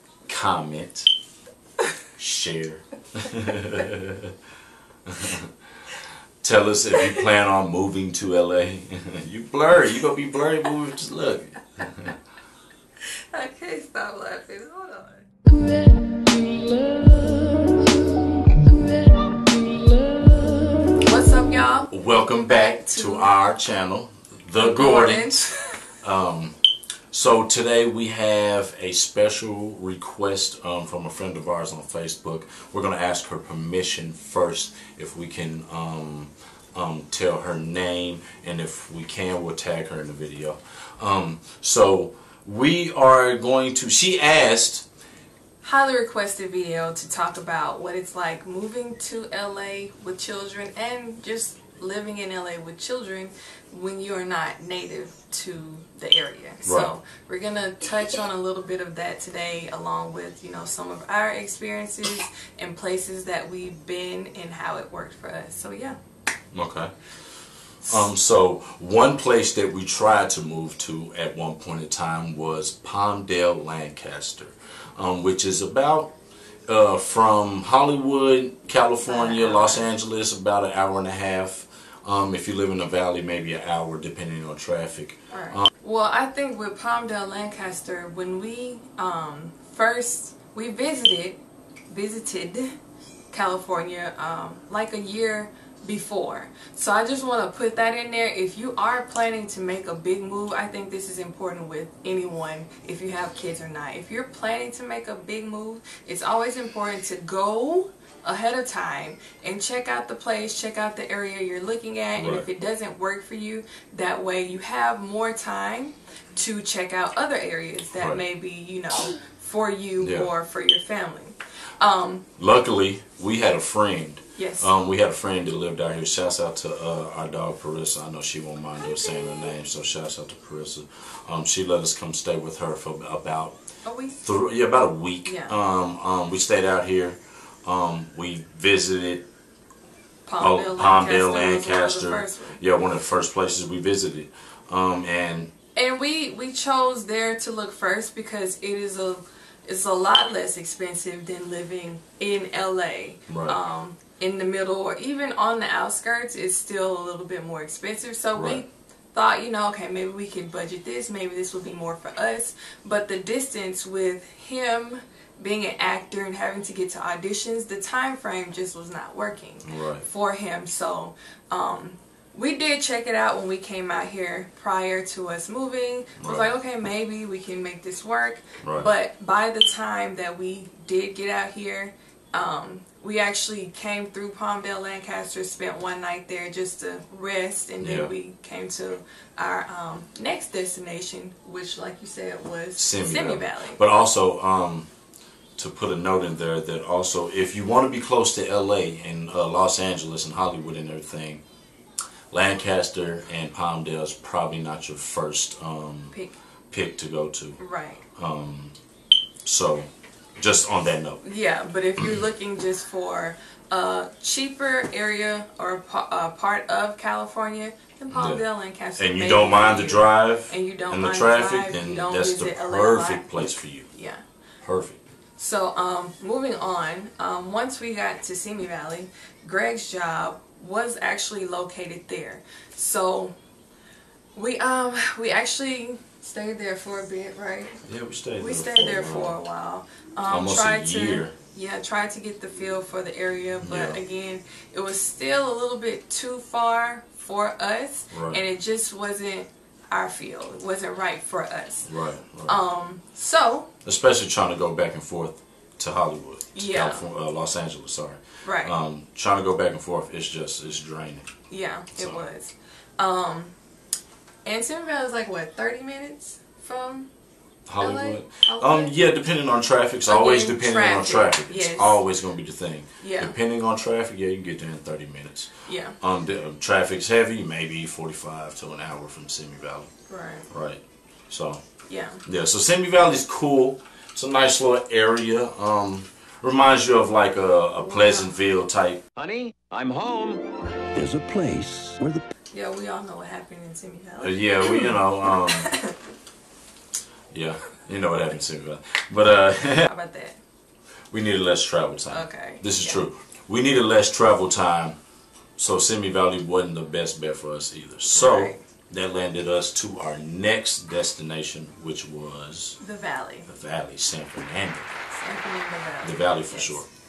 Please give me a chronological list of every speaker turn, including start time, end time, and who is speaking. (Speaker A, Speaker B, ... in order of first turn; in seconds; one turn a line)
Speaker A: 0.3-1.1
Speaker A: 2.2-4.3
Speaker A: 5.1-5.5
Speaker A: 6.4-12.2
Speaker B: 13.0-21.9
Speaker A: 21.9-25.4
Speaker B: 22.7-23.3
Speaker B: 24.6-26.0
Speaker A: 26.0-26.6
Speaker A: 27.1-44.9
Speaker B: 45.6-66.0
Speaker A: 56.6-56.9
Speaker A: 66.5-66.9
Speaker A: 67.8-76.1
Speaker A: 76.7-85.7
Speaker B: 79.1-79.9
Speaker B: 85.3-92.7
Speaker B: 93.3-122.3
Speaker A: 112.2-112.5
Speaker A: 118.0-118.2
Speaker A: 120.0-120.3
Speaker A: 122.4-133.6
Speaker B: 124.4-124.7
Speaker B: 133.8-134.2
Speaker A: 134.2-139.2
Speaker B: 135.2-135.6
Speaker B: 140.3-142.6
Speaker A: 140.4-145.5
Speaker B: 145.8-193.8
Speaker A: 153.3-153.6
Speaker A: 158.3-158.6
Speaker A: 169.6-170.1
Speaker A: 176.2-176.5
Speaker A: 178.6-178.9
Speaker A: 187.8-188.1
Speaker A: 192.8-194.9
Speaker A: 195.6-201.4
Speaker A: 202.3-206.2
Speaker A: 206.7-207.6
Speaker B: 207.6-208.1
Speaker A: 208.1-208.8
Speaker A: 209.4-211.2
Speaker B: 211.2-223.3
Speaker A: 218.1-218.4
Speaker A: 219.0-223.9
Speaker B: 223.9-224.2
Speaker A: 224.6-225.0
Speaker B: 225.4-233.3
Speaker B: 234.3-237.8
Speaker A: 237.9-239.4
Speaker B: 238.4-251.9
Speaker A: 240.3-241.3
Speaker A: 243.6-244.0
Speaker A: 248.1-248.4
Speaker A: 251.8-252.6
Speaker B: 252.5-253.7
Speaker A: 253.8-261.3
Speaker B: 256.6-257.1
Speaker B: 258.4-258.8
Speaker B: 261.5-263.5
Speaker A: 261.9-262.3
Speaker B: 264.4-267.1
Speaker A: 267.7-279.9
Speaker B: 267.8-269.0
Speaker B: 270.1-272.0
Speaker B: 273.0-273.4
Speaker B: 275.7-276.0
Speaker B: 280.1-280.5
Speaker A: 280.5-281.6
Speaker B: 281.9-282.2
Speaker A: 282.2-289.0
Speaker B: 287.8-288.3
Speaker C: 289.2-292.2
Speaker B: 292.5-296.0
Speaker A: 294.2-295.7
Speaker A: 297.3-299.9
Speaker B: 299.7-300.4
Speaker A: 301.1-305.0
Speaker B: 302.1-303.0
Speaker A: 305.6-312.8
Speaker B: 308.1-308.6
Speaker B: 312.8-313.5
Speaker A: 313.5-314.9
Speaker B: 315.1-316.8
Speaker A: 316.0-316.9